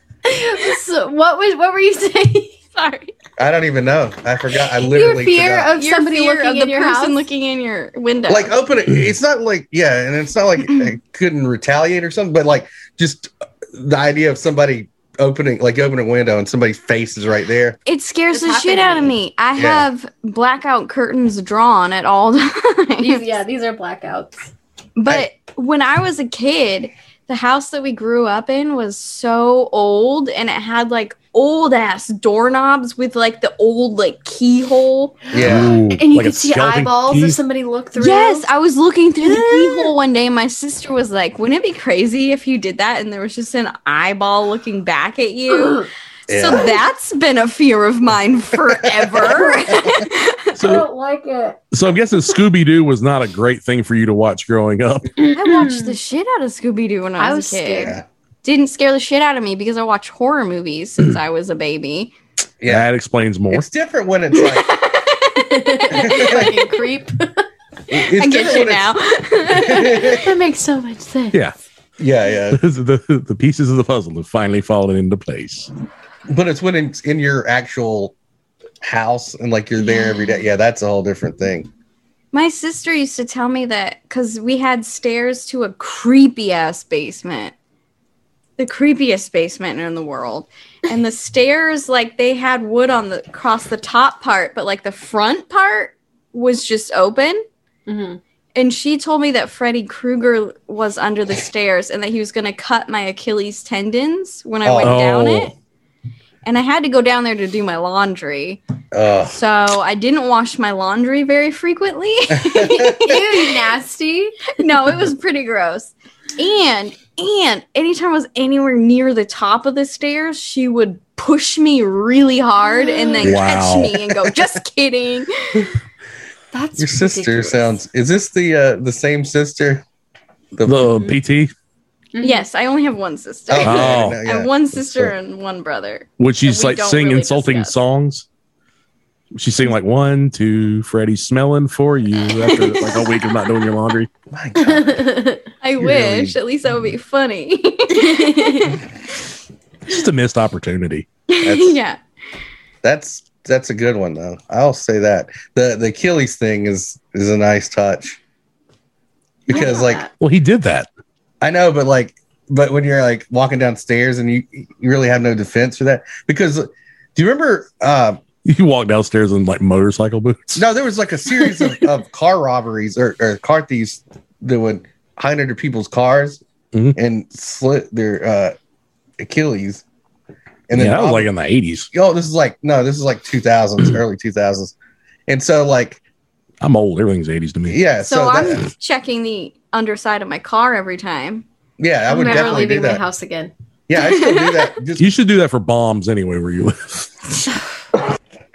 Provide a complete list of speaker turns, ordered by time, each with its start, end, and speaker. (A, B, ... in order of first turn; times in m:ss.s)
0:00.2-0:02.6 A
0:02.7-0:03.1 B
0:03.4-0:05.7 C
0:04.8-0:07.2 A
0:05.8-0:08.5 B
0:08.3-0:17.8 C
0:17.8-0:23.2 B
0:18.3-0:19.1 A
0:19.6-0:19.9 C
0:23.0-0:24.4 A
0:25.0-0:35.2 B
0:35.3-0:35.7 C
0:35.3-0:38.4 A
0:35.4-0:37.4 D
0:38.0-0:50.6 B
0:39.2-0:39.9 A
0:46.3-0:46.8 C
0:48.7-0:49.5 C
0:50.6-0:50.9 D
0:50.6-0:51.6 A
0:51.7-0:55.1 D
0:55.2-0:56.0 A
0:55.3-1:02.1 B
0:57.2-0:58.0 A
0:57.8-0:58.0 C
1:02.6-1:02.9 C
1:02.6-1:03.6 D
1:03.5-1:04.7 C
1:04.3-1:06.5 B
1:05.5-1:07.4 A
1:05.9-1:06.5 C
1:07.9-1:08.9 C
1:08.1-1:10.2 B
1:09.5-1:10.2 C
1:09.7-1:11.4 A
1:12.0-1:12.6 C
1:12.5-1:15.7 D
1:16.3-1:18.1 C
1:18.8-1:21.7 C
1:19.8-1:20.4 A
1:22.3-1:27.5 B
1:28.6-1:37.4 B
1:37.9-1:38.2 A
1:38.5-1:45.5 B
1:44.6-1:45.0 C
1:44.8-1:45.5 D
1:46.4-1:48.6 B
1:48.9-1:49.4 C
1:49.3-1:53.4 B
1:52.3-1:53.1 C
1:52.8-1:54.5 A
1:54.6-2:05.7 B
2:02.6-2:03.4 A
2:03.2-2:04.0 D
2:06.5-2:07.8 A
2:06.8-2:09.8 C
2:10.5-2:11.1 C
2:10.6-2:11.5 D
2:12.1-2:12.4 A
2:12.2-2:17.8 B
2:13.5-2:15.1 C
2:13.6-2:14.2 D
2:16.2-2:18.2 D
2:19.3-2:24.1 D
2:22.4-2:23.0 B
2:24.3-2:25.0 C
2:24.6-2:25.4 A
2:25.6-2:28.8 B
2:25.8-2:26.3 C
2:28.0-2:28.7 A
2:29.9-2:31.1 D
2:31.3-2:32.0 B
2:31.4-2:31.8 C
2:32.8-2:38.2 C
2:39.5-2:40.0 C
2:39.5-2:40.1 A
2:40.2-2:40.9 D
2:41.4-2:48.2 C
2:48.4-2:50.6 D
2:50.6-2:56.4 C
2:56.9-2:58.5 C
2:59.2-2:59.8 C
3:00.7-3:01.3 C
3:00.7-3:01.9 D
3:01.9-3:04.7 C
3:05.3-3:06.0 C
3:06.6-3:07.8 D
3:07.7-3:08.6 C
3:08.0-3:11.4 B
3:11.8-3:13.0 C
3:12.1-3:13.5 A
3:12.2-3:12.7 B
3:13.9-3:15.1 C
3:14.0-3:14.7 B
3:15.0-3:17.1 D